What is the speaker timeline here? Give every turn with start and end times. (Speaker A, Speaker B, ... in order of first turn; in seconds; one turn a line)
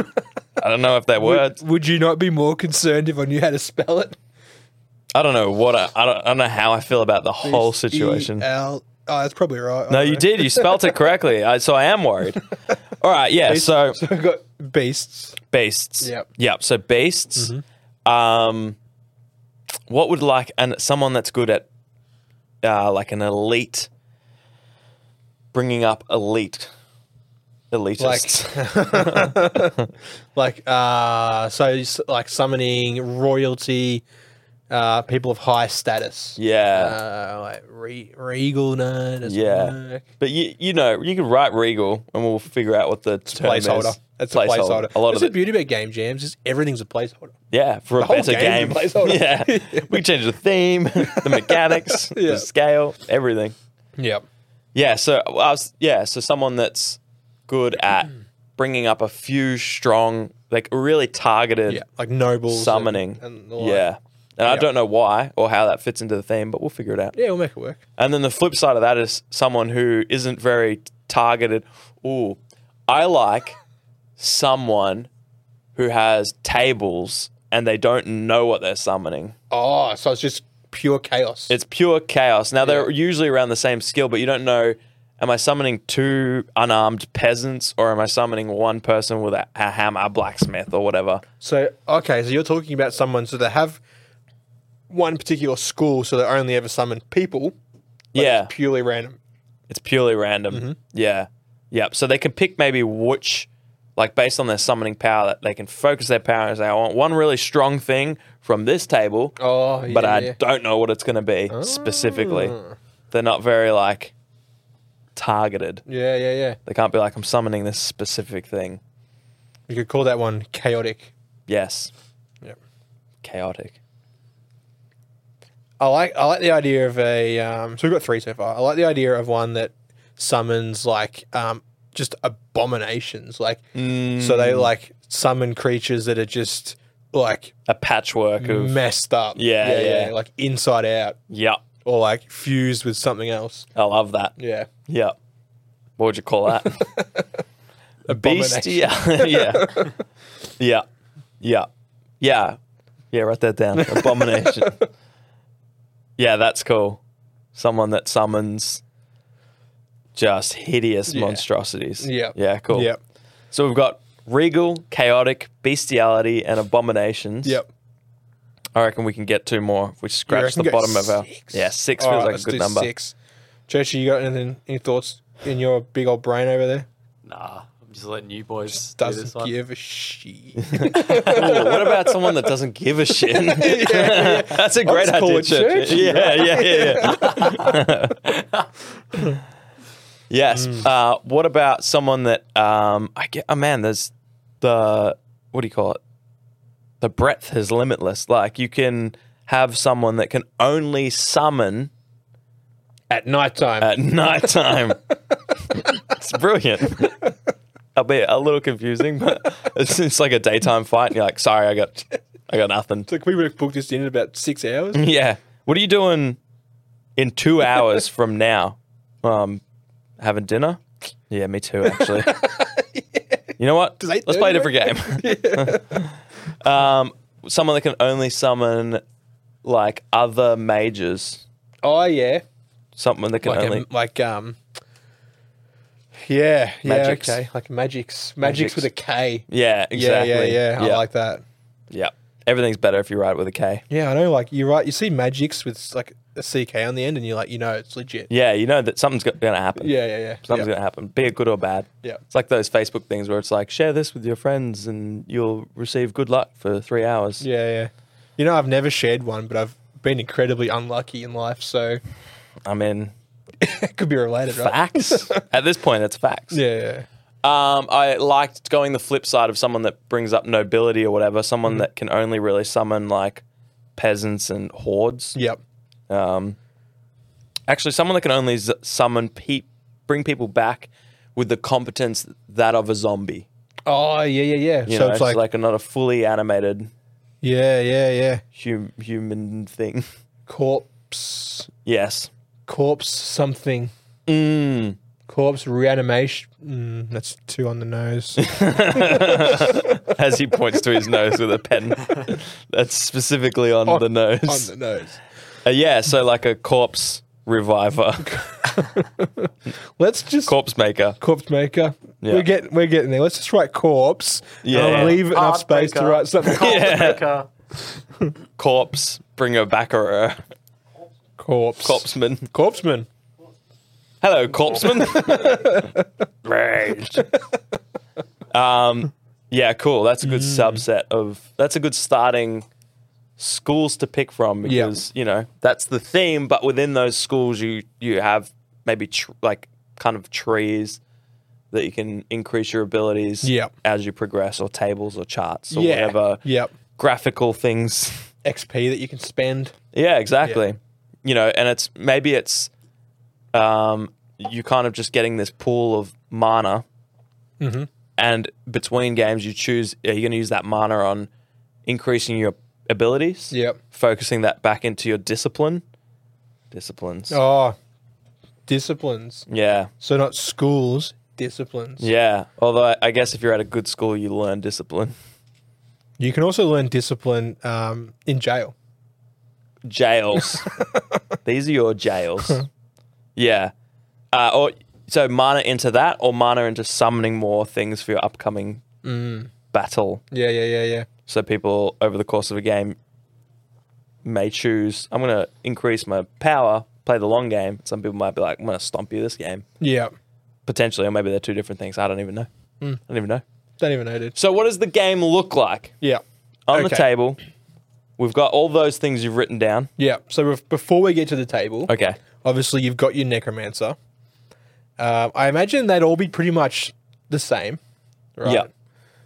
Speaker A: 0.6-1.6
Speaker B: 1.2-4.2
Speaker A: 5.1-8.4
Speaker B: 7.4-11.0
Speaker A: 9.9-14.0
Speaker B: 13.4-15.4
Speaker A: 15.5-17.5
Speaker B: 16.0-16.3
Speaker B: 17.4-17.6
Speaker A: 18.1-18.8
Speaker A: 19.9-21.7
Speaker A: 22.6-23.9
Speaker A: 25.5-26.7
Speaker A: 27.7-29.9
Speaker B: 28.0-29.8
Speaker B: 30.4-34.0
Speaker B: 34.7-40.0
Speaker A: 36.4-37.0
Speaker A: 39.2-45.4
Speaker B: 43.3-47.4
Speaker A: 47.5-53.5
Speaker B: 48.0-50.0
Speaker B: 51.0-52.5
Speaker B: 54.0-54.2
Speaker A: 54.8-61.8
Speaker B: 61.7-63.9
Speaker A: 62.5-67.2
Speaker B: 67.1-67.8
Speaker A: 68.0-73.6
Speaker A: 74.2-75.1
Speaker A: 75.8-79.3
Speaker B: 79.5-81.5
Speaker A: 81.5-91.2
Speaker B: 82.6-82.9
Speaker B: 91.4-93.8
Speaker B: 94.9-97.5
Speaker A: 98.1-98.5
Speaker B: 98.2-99.2
Speaker A: 99.7-109.4
Speaker B: 100.5-100.8
Speaker B: 109.4-110.4
Speaker A: 109.9-112.6
Speaker B: 111.5-112.8
Speaker A: 113.1-114.1
Speaker A: 115.2-115.8
Speaker B: 115.9-116.6
Speaker A: 116.7-118.8
Speaker B: 119.7-121.1
Speaker A: 121.5-121.9
Speaker A: 123.2-123.8
Speaker B: 125.8-133.7
Speaker A: 133.8-134.7
Speaker B: 134.2-137.6
Speaker A: 137.7-138.8
Speaker B: 138.4-141.2
Speaker A: 139.3-140.1
Speaker A: 141.3-141.6
Speaker B: 141.8-143.7
Speaker A: 143.8-144.3
Speaker B: 144.4-144.7
Speaker A: 144.9-145.2
Speaker A: 146.0-146.9
Speaker B: 146.8-147.3
Speaker B: 148.1-149.9
Speaker A: 148.1-149.9
Speaker A: 150.6-150.8
Speaker A: 151.4-151.7
Speaker A: 152.2-152.6
Speaker A: 153.1-154.8
Speaker B: 153.8-154.8
Speaker A: 156.2-157.0
Speaker A: 157.6-158.8
Speaker A: 160.2-162.9
Speaker B: 161.1-161.4
Speaker B: 162.0-163.0
Speaker A: 163.5-167.6
Speaker A: 168.8-172.9
Speaker B: 170.3-173.2
Speaker B: 173.7-176.9
Speaker C: 177.2-179.5
Speaker B: 178.7-182.5
Speaker A: 180.6-188.4
Speaker B: 183.3-187.8
Speaker A: 190.3-196.0
Speaker B: 190.6-190.9
Speaker A: 197.0-201.9
Speaker B: 203.1-204.0
Speaker A: 203.8-205.0
Speaker A: 205.8-207.3
Speaker A: 207.9-213.1
Speaker B: 213.1-215.1
Speaker A: 214.9-216.4
Speaker A: 217.2-219.6
Speaker A: 220.2-222.5
Speaker B: 221.8-223.4
Speaker A: 223.6-229.0
Speaker B: 224.0-226.1
Speaker A: 229.6-231.4
Speaker B: 231.8-232.4
Speaker A: 233.0-233.8
Speaker B: 233.4-234.6
Speaker B: 236.2-241.4
Speaker A: 236.8-237.4
Speaker A: 238.4-238.9
Speaker A: 239.5-241.0
Speaker A: 241.9-243.8
Speaker B: 243.9-248.3
Speaker A: 248.3-257.4
Speaker B: 249.8-250.7
Speaker B: 257.4-262.0
Speaker A: 262.6-263.1
Speaker B: 263.6-265.4
Speaker A: 264.5-266.6
Speaker B: 266.5-267.1
Speaker A: 267.4-273.4
Speaker A: 274.0-275.4
Speaker B: 275.4-275.6
Speaker A: 276.1-276.6
Speaker A: 277.7-283.5
Speaker B: 283.9-285.4
Speaker A: 284.9-286.9
Speaker B: 287.4-288.4
Speaker A: 288.6-290.1
Speaker B: 290.5-291.7
Speaker A: 291.9-292.3
Speaker B: 292.7-293.9
Speaker A: 294.3-295.0
Speaker B: 295.3-300.0
Speaker A: 298.4-304.7
Speaker B: 303.9-305.2
Speaker A: 305.6-308.8
Speaker B: 308.3-310.6
Speaker A: 310.4-311.2
Speaker B: 311.2-317.1
Speaker A: 312.2-312.5
Speaker A: 314.6-315.2
Speaker C: 314.7-317.5
Speaker A: 316.5-317.2
Speaker A: 318.6-320.4
Speaker B: 321.4-323.1
Speaker A: 321.8-322.5
Speaker A: 324.2-327.3
Speaker B: 325.3-326.0
Speaker A: 328.5-332.7
Speaker B: 330.2-330.8
Speaker A: 333.4-341.0
Speaker B: 334.6-334.9
Speaker A: 341.7-346.4
Speaker B: 343.4-343.7
Speaker B: 345.7-346.7
Speaker A: 346.9-348.2
Speaker B: 348.4-349.7
Speaker A: 349.9-352.7
Speaker A: 353.5-356.9
Speaker B: 357.6-357.9
Speaker A: 358.2-361.3
Speaker A: 361.9-365.8
Speaker B: 363.5-363.8
Speaker A: 366.7-367.4
Speaker B: 367.3-367.8
Speaker B: 368.7-369.5
Speaker A: 369.5-369.9
Speaker B: 370.0-372.1
Speaker A: 372.0-375.1
Speaker B: 376.2-378.7
Speaker A: 379.9-380.7
Speaker B: 380.5-381.0
Speaker A: 381.4-382.6
Speaker A: 383.4-383.7
Speaker A: 384.3-388.9
Speaker B: 389.0-389.5
Speaker A: 389.7-390.2
Speaker B: 390.3-391.1
Speaker A: 391.3-393.0
Speaker A: 394.2-399.6
Speaker B: 399.8-400.1
Speaker A: 400.7-402.5
Speaker A: 403.1-403.4
Speaker B: 403.8-404.4
Speaker A: 404.4-405.9
Speaker B: 406.0-407.1
Speaker A: 406.7-407.4
Speaker A: 408.2-409.9
Speaker B: 410.0-411.9
Speaker A: 411.9-412.2
Speaker B: 412.4-414.0
Speaker B: 415.0-417.8
Speaker B: 418.4-418.7